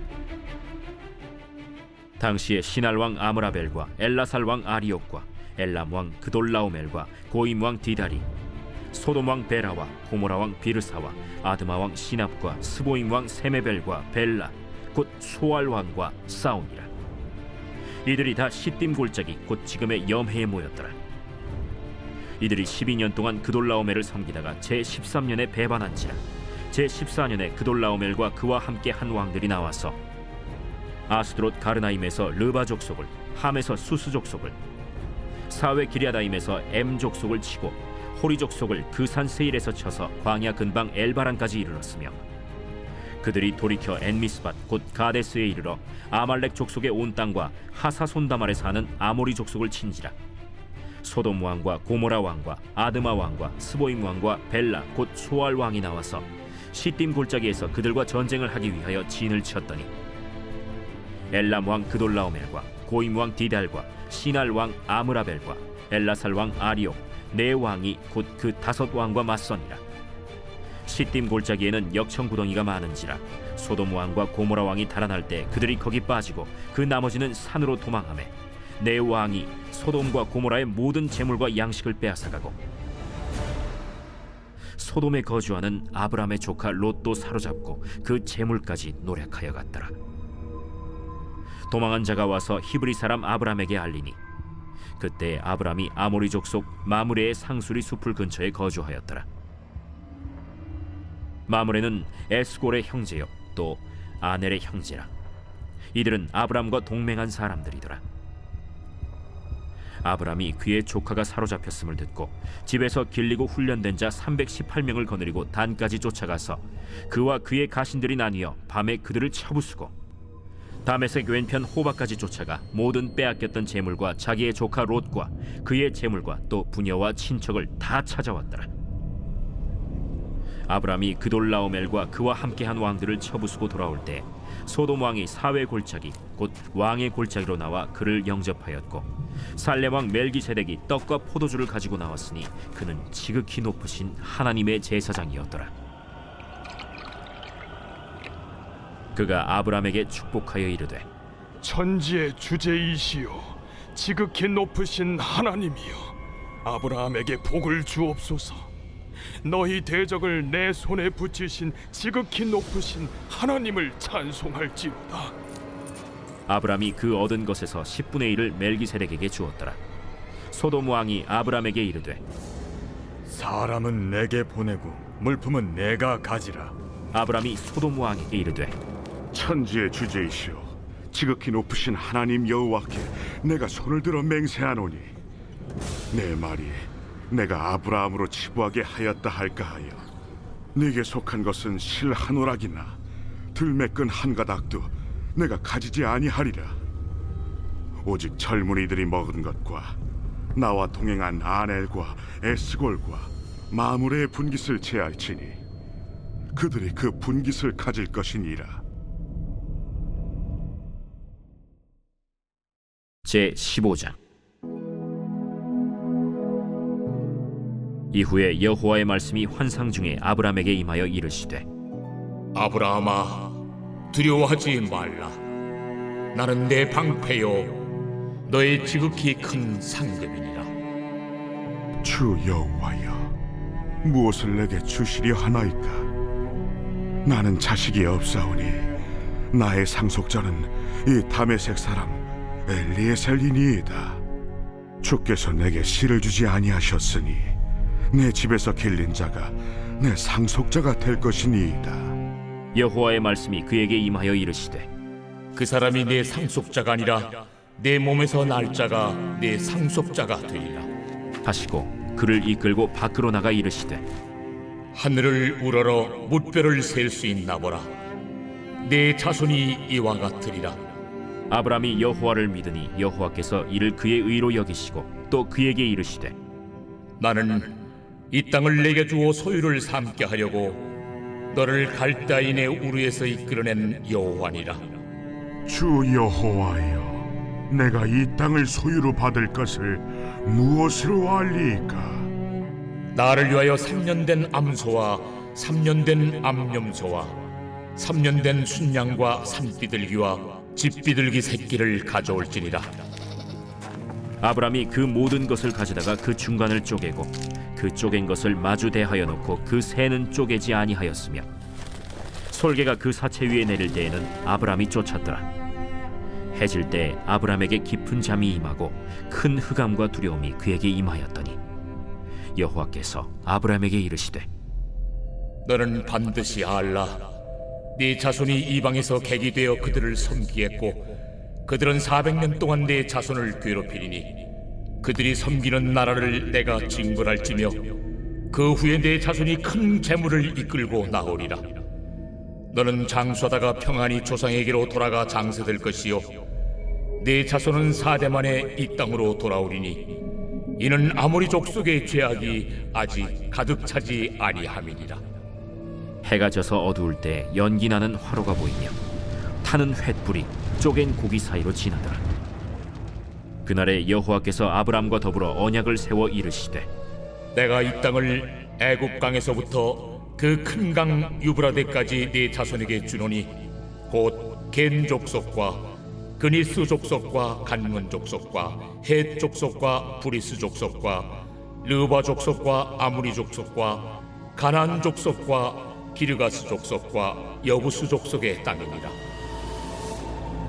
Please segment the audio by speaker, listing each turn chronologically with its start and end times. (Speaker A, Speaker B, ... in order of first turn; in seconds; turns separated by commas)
Speaker A: 2.2-8.2, Speaker A: 8.9-16.9, Speaker A: 18.0-20.9, Speaker A: 22.4-29.9, Speaker A: 31.1-34.6, Speaker A: 35.5-42.2, Speaker A: 43.2-50.1, Speaker A: 51.0-59.9, Speaker A: 61.3-69.8, Speaker A: 70.8-82.6, Speaker A: 84.8-89.9, Speaker A: 91.7-94.2, Speaker A: 95.0-99.2, Speaker A: 101.5-105.1, Speaker A: 105.9-108.0, Speaker A: 110.0-119.9, Speaker A: 120.8-128.7, Speaker A: 130.7-145.7, Speaker A: 149.1-151.1, Speaker B: 151.6-158.7, Speaker B: 159.4-165.3, Speaker A: 166.5-169.8, Speaker A: 170.5-172.2, Speaker C: 173.3-176.7, Speaker A: 177.1-178.7, Speaker D: 179.3-185.1, Speaker D: 186.1-190.1, Speaker D: 190.7-193.0, Speaker D: 193.5-196.8, Speaker D: 198.0-200.0, Speaker D: 200.5-205.6, Speaker D: 206.5-208.8, Speaker A: 213.2-214.2, Speaker A: 218.1-221.6, Speaker E: 222.5-223.6, Speaker E: 224.1-225.3, Speaker E: 226.3-227.8, Speaker E: 228.5-230.7, Speaker D: 232.0-233.3, Speaker D: 234.0-236.1, Speaker D: 237.2-238.9, Speaker D: 239.5-244.2, Speaker D: 245.0-247.5, Speaker D: 248.1-252.2, Speaker A: 252.7-254.9, Speaker E: 255.5-260.9, Speaker A: 261.4-264.0, Speaker E: 264.9-267.9, Speaker E: 268.8-270.8, Speaker A: 271.5-276.3, Speaker E: 277.2-277.7, Speaker E: 278.3-280.8, Speaker E: 281.5-284.8, Speaker D: 285.6-292.3, Speaker E: 293.1-297.3, Speaker E: 298.0-302.9, Speaker A: 304.4-311.5, Speaker A: 312.5-315.4, Speaker A: 316.5-321.6, Speaker A: 322.5-324.5, Speaker E: 325.6-327.2, Speaker E: 327.9-331.1, Speaker E: 331.6-334.4, Speaker E: 335.0-337.9, Speaker E: 338.5-341.7, Speaker E: 342.7-346.4, Speaker E: 347.2-350.1, Speaker E: 350.8-355.2, Speaker A: 356.2-358.9, Speaker A: 359.6-362.2, Speaker A: 363.6-366.9, Speaker E: 367.5-373.5, Speaker E: 374.1-389.1